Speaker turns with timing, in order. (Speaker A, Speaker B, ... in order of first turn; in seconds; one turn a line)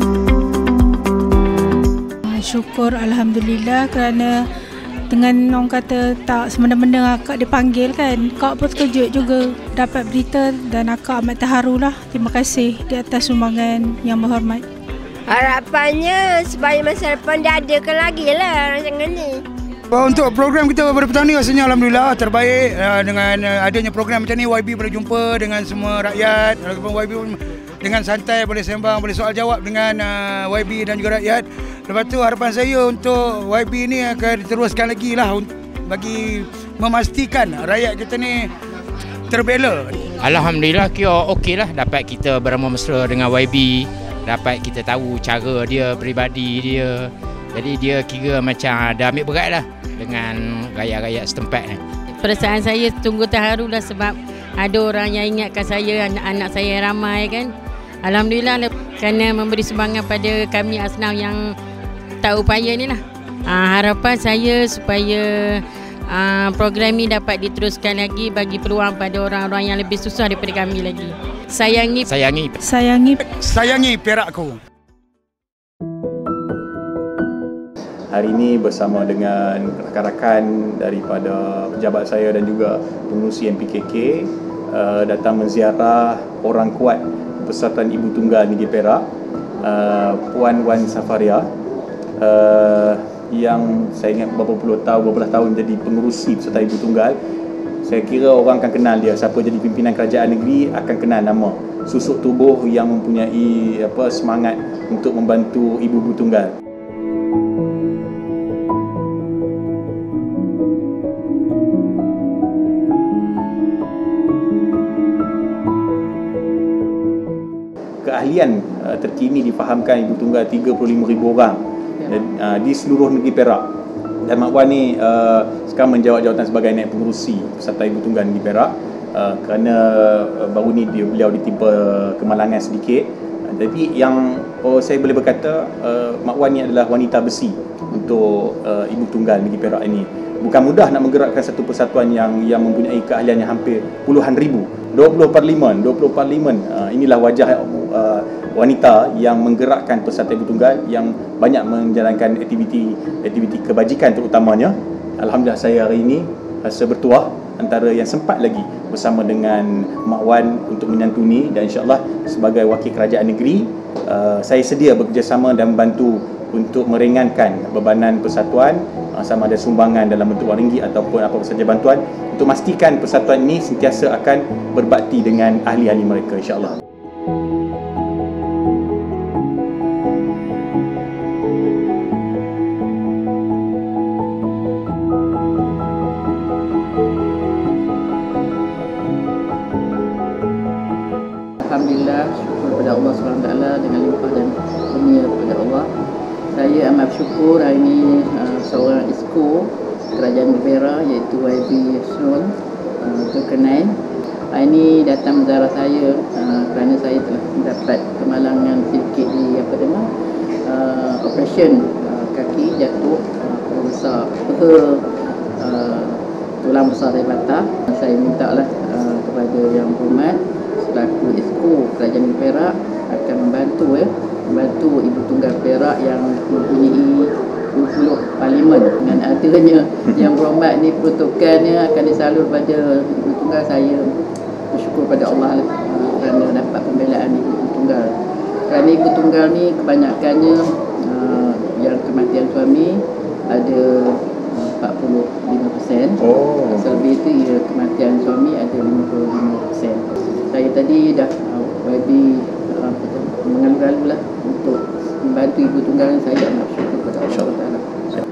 Speaker A: 2.3-4.4
Speaker A: 5.1-14.6
Speaker B: 15.3-19.4
Speaker C: 19.9-38.5
Speaker C: 39.3-40.0
Speaker D: 40.1-51.8
Speaker E: 52.2-57.5
Speaker E: 58.0-61.5
Speaker E: 62.2-72.1
Speaker D: 72.0-72.5
Speaker A: 72.6-73.2
Speaker C: 73.3-74.6
Speaker F: 78.1-89.1
Speaker F: 89.6-91.5
Speaker F: 92.2-97.2
Speaker F: 97.8-106.5
Speaker F: 118.0-123.7
Speaker F: 124.2-176.8
Speaker G: 191.6-195.9
Speaker G: 196.5-204.0
Speaker G: 204.5-210.1
Speaker G: 210.6-234.2
Speaker G: 234.7-238.1
Speaker G: 238.7-258.2
Speaker F: 246.3-246.6